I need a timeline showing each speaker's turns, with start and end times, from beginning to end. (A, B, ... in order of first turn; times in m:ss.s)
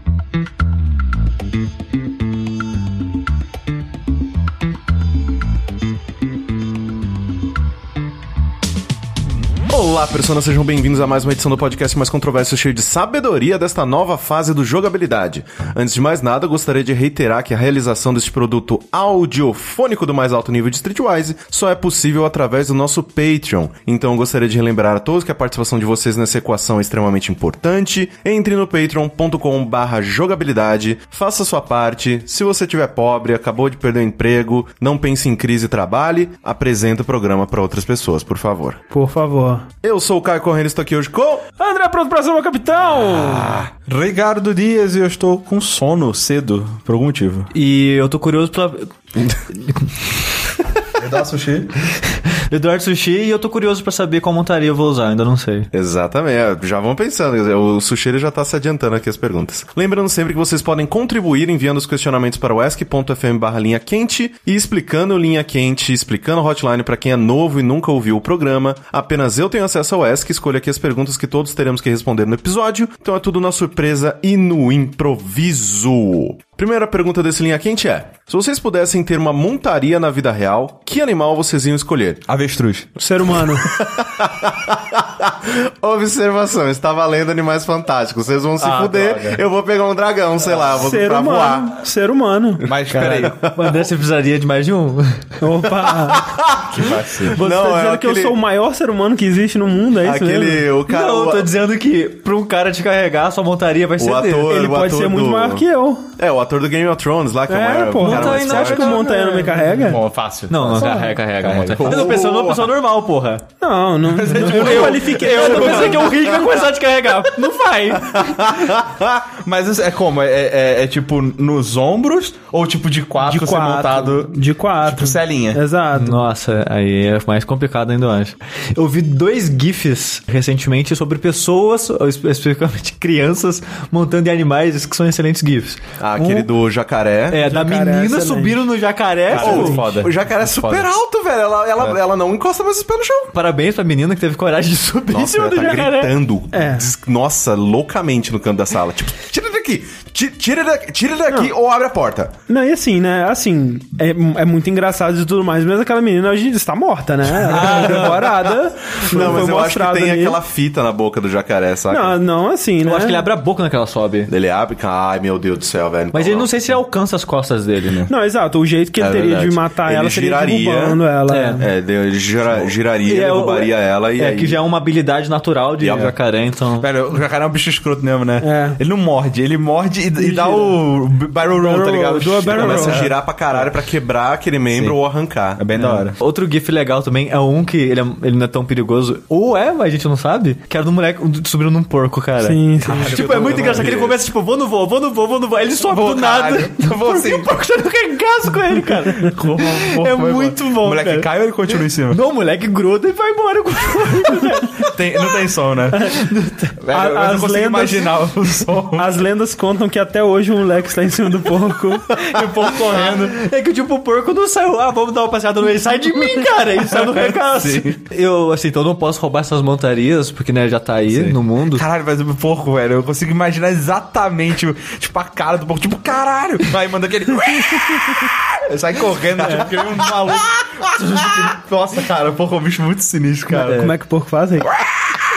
0:09.7-0:38.8 A
0:38.9-0:39.6 B
0:39.8-0:41.4 A
0:41.6-0:43.6 B
0:43.0-0:43.7 A
0:43.8-0:47.5 C
0:47.5-0:49.9 D
0:51.0-0:51.7 C
0:52.0-0:55.7 D
0:55.7-1:22.2 A
1:22.3-1:23.0 C
1:23.0-1:23.7 B
1:23.6-1:31.7 A
1:28.6-1:29.4 C
1:30.4-1:30.8 C
1:30.8-1:32.6 B
1:32.6-1:33.4 C
1:32.9-1:35.2 D
1:33.2-1:33.8 A
1:35.4-1:36.3 B
1:35.8-1:38.4 A
1:36.7-1:37.4 C
1:37.3-1:40.6 B
1:40.0-1:41.5 A
1:40.9-1:44.5 D
1:44.0-1:45.6 A
1:44.4-1:46.1 B
1:46.2-1:49.0 A
1:47.5-1:50.0 B
1:48.0-1:49.7 D
1:49.4-1:52.4 C
1:50.5-1:53.4 D
1:50.7-1:51.2 B
1:51.8-1:52.7 A
1:53.6-1:56.6 B
1:54.1-1:56.1 C
1:54.3-1:58.6 D
1:58.1-1:59.2 A
1:59.2-2:05.6 C
2:03.2-2:06.2 B
2:05.9-2:16.5 D
2:16.0-2:17.4 A
2:17.3-2:19.8 D
2:17.4-2:18.6 B
2:19.3-2:20.9 C
2:19.4-2:23.3 A
2:19.4-2:19.8 B
2:23.3-2:25.7 D
2:25.1-2:32.3 A
2:25.5-2:26.8 B
2:32.5-2:40.4 B
2:37.5-2:38.3 D
2:37.5-2:42.2 A
2:41.9-2:43.3 B
2:42.8-2:44.3 D
2:44.3-2:46.6 A
2:46.1-2:48.1 D
2:47.8-2:48.1 C
2:48.1-2:51.7 B
2:49.0-2:51.0 A
2:51.3-2:51.6 D
2:51.6-2:54.6 A
2:53.0-2:56.9 D
2:55.8-2:56.1 A
2:56.8-3:03.7 C
2:58.4-2:58.8 B
3:00.2-3:00.8 B
3:01.5-3:03.1 B
3:02.5-3:05.6 A
3:04.7-3:05.0 C
3:05.6-3:06.1 C
3:05.7-3:25.0 D
3:12.4-3:13.3 B
3:12.8-3:14.1 C
3:13.2-3:14.2 A
3:15.9-3:17.5 C
3:19.1-3:22.2 C
3:24.9-3:26.1 C
3:26.0-3:26.7 D
3:26.8-3:29.2 C
3:26.9-3:28.3 B
3:28.9-3:32.2 B
3:32.2-3:33.4 C
3:32.8-3:41.9 D
3:36.9-3:38.0 C
3:41.1-3:53.9 C
3:49.4-3:50.0 D
3:53.5-3:53.9 D
3:53.6-3:54.7 B